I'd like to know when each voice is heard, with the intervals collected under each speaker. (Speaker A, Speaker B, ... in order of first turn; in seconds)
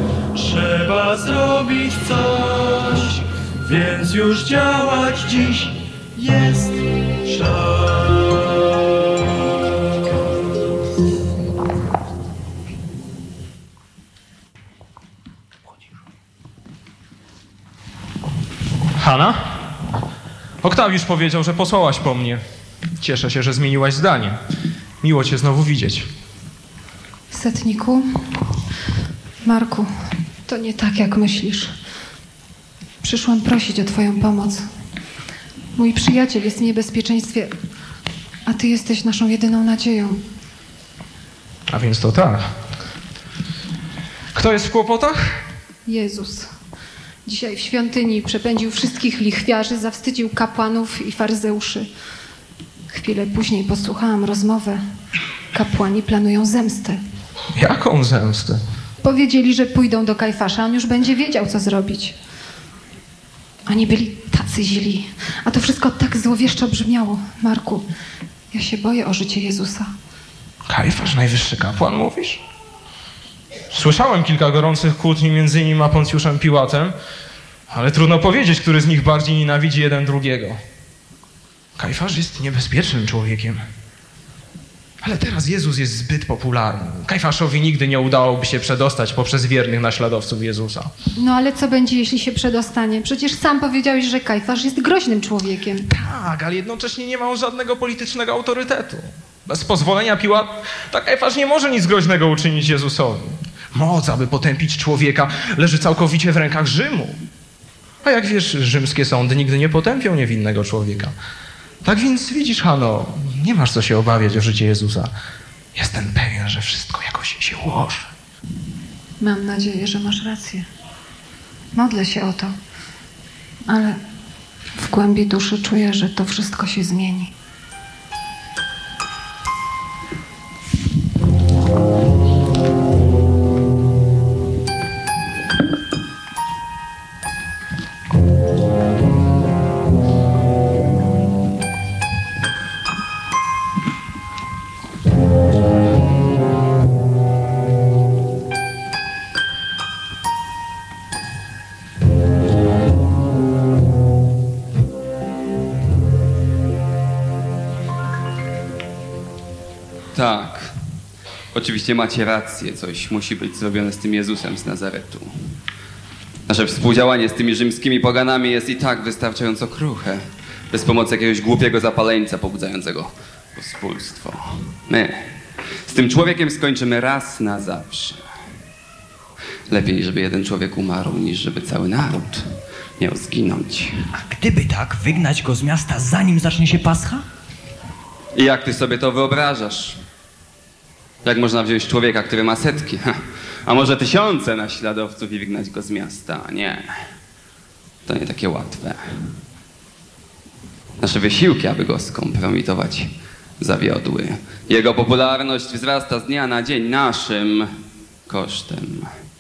Speaker A: 0.3-8.5
Speaker B: 19.0-19.4, 20.6-22.4, 23.0-24.4, 25.0-26.1, 41.7-42.5, 44.3-45.2, 57.5-58.6, 70.7-72.4, 73.7-77.0, 77.7-80.6, 81.8-83.6, 85.0-90.9, 95.9-107.2, 108.0-111.1, 111.8-115.1, 115.8-118.1
Speaker C: 27.3-28.1, 29.4-29.9, 30.5-31.7, 33.0-34.6, 35.8-37.5, 38.5-40.2, 45.9-46.5, 47.3-51.9, 52.9-54.8, 55.5-57.0, 59.0-62.2, 63.7-67.9, 68.5-69.9, 91.2-95.9, 119.2-120.7, 121.8-122.5, 123.7-124.0, 124.8-127.3
Speaker D: 160.1-160.8, 161.5-165.3, 166.5-175.3, 175.8-178.2, 179.7-184.0, 188.3-190.0, 191.2-196.9, 198.1-199.0, 201.0-207.7, 208.3-209.1
Speaker E: 184.3-187.2